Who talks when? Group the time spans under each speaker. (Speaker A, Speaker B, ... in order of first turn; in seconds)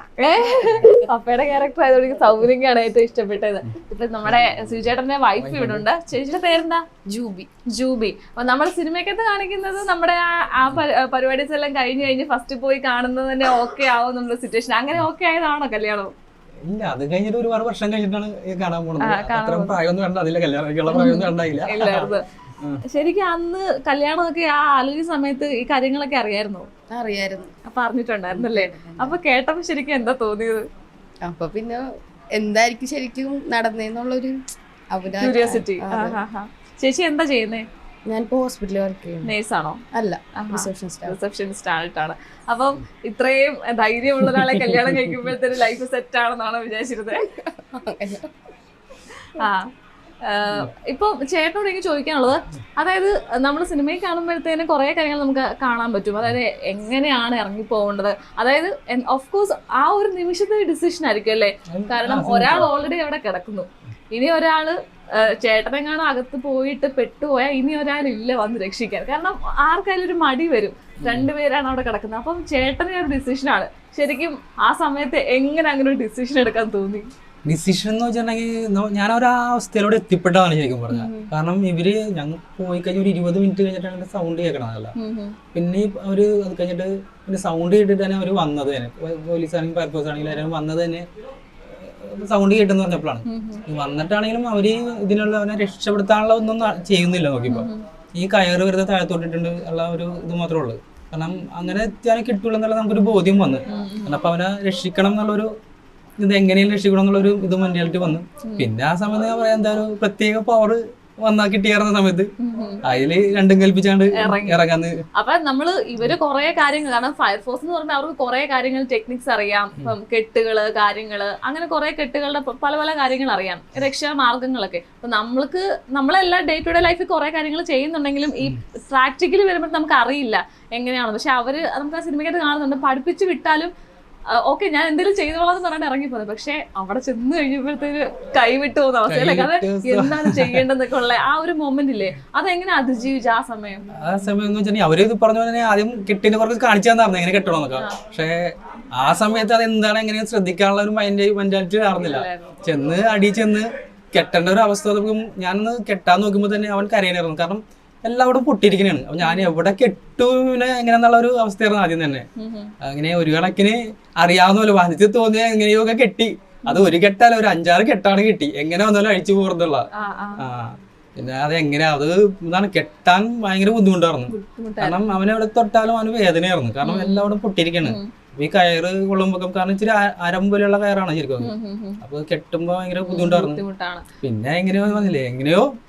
Speaker A: 0.2-6.8, 7.8-16.1, 19.0-19.8, 20.9-22.2, 22.9-26.7, 27.7-30.7, 35.2-37.7, 39.2-39.8, 40.4-47.2, 49.4-49.7, 50.2-77.1, 80.9-81.2, 85.0-85.3, 93.3-93.6, 97.5-97.8, 103.7-104.2, 112.4-112.8, 114.3-114.6, 115.2-133.7, 134.3-143.9, 152.0-152.6, 159.2-159.5, 162.4-162.7, 166.7-166.9, 170.0-170.4, 174.3-175.0, 176.8-177.3, 177.8-178.1, 181.4-182.0, 183.0-184.0
Speaker B: 0.4-0.8, 7.1-7.5, 26.9-27.5, 28.3-29.2, 31.3-31.8, 32.4-34.4, 34.9-36.2, 38.1-39.3, 39.9-41.2, 47.7-48.3
Speaker C: 5.4-5.9, 16.7-21.9, 61.7-62.7, 71.0-71.3, 77.5-84.9, 85.5-91.1, 91.7-105.5, 106.2-112.3, 112.8-115.0, 139.1-140.7, 143.9-162.3, 162.8-169.9, 170.4-183.6, 184.2-185.7